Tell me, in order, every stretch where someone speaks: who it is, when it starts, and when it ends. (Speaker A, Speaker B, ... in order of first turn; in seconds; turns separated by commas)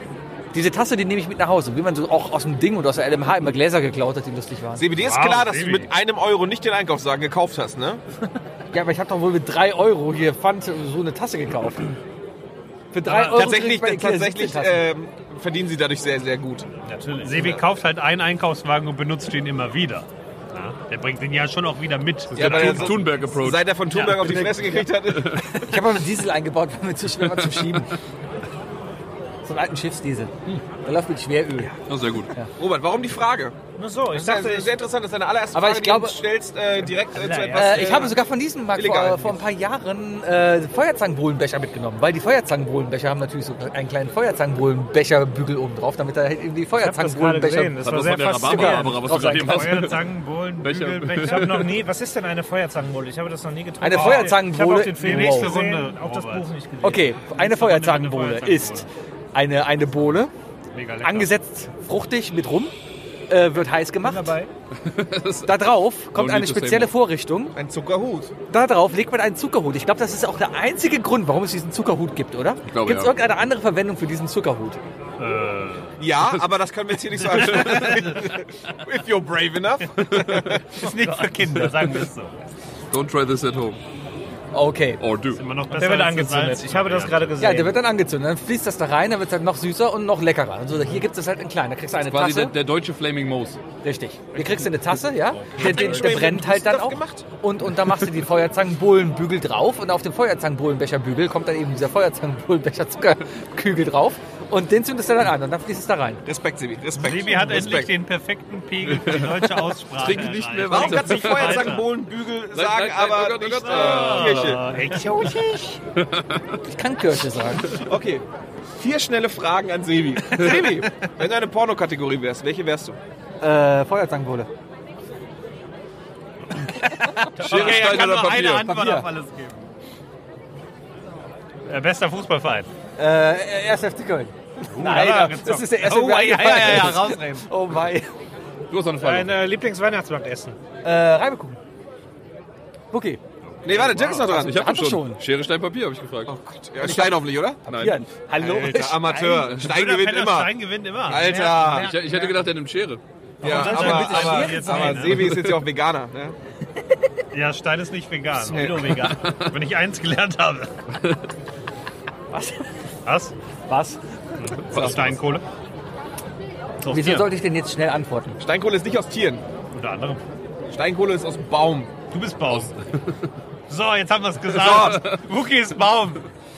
Speaker A: 0.5-4.8, Speaker B: 4.8-8.0, Speaker C: 5.0-5.9, Speaker A: 8.7-11.9, Speaker A: 12.9-14.8, Speaker B: 13.1-16.7, Speaker C: 16.9-23.1, Speaker D: 16.9-17.3, Speaker B: 17.3-17.6, Speaker E: 22.3-23.7, Speaker B: 22.3-25.5, Speaker C: 23.9-24.3, Speaker A: 24.3-24.8, Speaker E: 25.2-25.5, Speaker A: 25.5-27.9, Speaker E: 27.3-27.8, Speaker A: 29.4-31.8, Speaker E: 31.9-32.3, Speaker B: 32.6-33.6, Speaker D: 33.8-34.7, Speaker B: 34.1-38.2, Speaker A: 35.5-36.2, Speaker D: 37.1-38.1, Speaker A: 37.5-47.8, Speaker B: 38.7-39.5, Speaker D: 46.8-57.2, Speaker E: 47.8-51.8, Speaker A: 48.5-49.6, Speaker C: 51.1-51.6, Speaker A: 53.8-55.5, Speaker C: 53.9-54.3, Speaker C: 55.0-56.5, Speaker A: 56.8-60.3, Speaker C: 57.3-58.9, Speaker C: 60.7-61.3, Speaker A: 61.0-62.7, Speaker A: 63.3-64.4, Speaker D: 64.0-64.5, Speaker E: 64.8-67.0, Speaker A: 65.5-67.5, Speaker B: 67.5-68.3, Speaker A: 68.5-74.8, Speaker E: 72.7-73.2, Speaker C: 75.2-76.0, Speaker B: 76.0-80.6, Speaker E: 76.2-76.4, Speaker C: 77.3-78.3, Speaker E: 77.3-78.0, Speaker E: 80.0-80.6, Speaker C: 80.2-82.3, Speaker E: 82.9-83.8, Speaker A: 84.5-85.0, Speaker E: 85.0-85.5, Speaker C: 85.3-87.4, Speaker D: 85.7-87.8, Speaker A: 87.4-92.5, Speaker E: 92.0-93.6, Speaker A: 93.8-106.2, Speaker C: 95.4-96.0, Speaker B: 95.6-97.3, Speaker B: 106.3-107.9, Speaker C: 107.0-111.9, Speaker E: 108.8-111.8, Speaker B: 110.7-114.7, Speaker E: 112.5-114.6, Speaker C: 113.6-115.4, Speaker D: 114.9-115.8, Speaker E: 116.0-116.6, Speaker A: 116.7-117.7, Speaker B: 117.7-123.0, Speaker A: 123.4-124.5, Speaker A: 127.0-127.3, Speaker C: 127.0-129.7, Speaker E: 127.4-128.7, Speaker A: 128.6-129.1, Speaker C: 131.7-132.7, Speaker A: 133.0-138.1, Speaker C: 134.7-137.4, Speaker E: 138.7-139.5, Speaker D: 139.0-140.6, Speaker A: 140.8-141.6, Speaker A: 142.9-143.2, Speaker E: 143.5-146.3, Speaker B: 143.6-144.6, Speaker A: 144.3-145.2, Speaker B: 146.3-147.6, Speaker A: 146.8-149.6, Speaker E: 147.7-148.9, Speaker B: 148.4-151.9, Speaker C: 149.6-152.0, Speaker D: 151.7-152.4, Speaker E: 151.7-153.0, Speaker C: 153.4-155.3, Speaker B: 153.4-156.3, Speaker A: 153.4-155.1, Speaker E: 155.2-155.6, Speaker C: 157.3-160.8, Speaker B: 158.4-159.1, Speaker E: 158.9-159.6, Speaker A: 162.3-162.6, Speaker C: 163.1-163.3, Speaker A: 163.7-164.0, Speaker C: 164.4-165.4, Speaker E: 164.5-165.2, Speaker C: 166.8-167.3, Speaker A: 166.9-168.4, Speaker B: 168.4-169.4, Speaker C: 169.7-170.2, Speaker B: 170.7-171.9, Speaker C: 172.1-172.8, Speaker E: 172.5-173.1, Speaker C: 173.7-176.2, Speaker B: 174.5-175.1, Speaker E: 174.6-175.2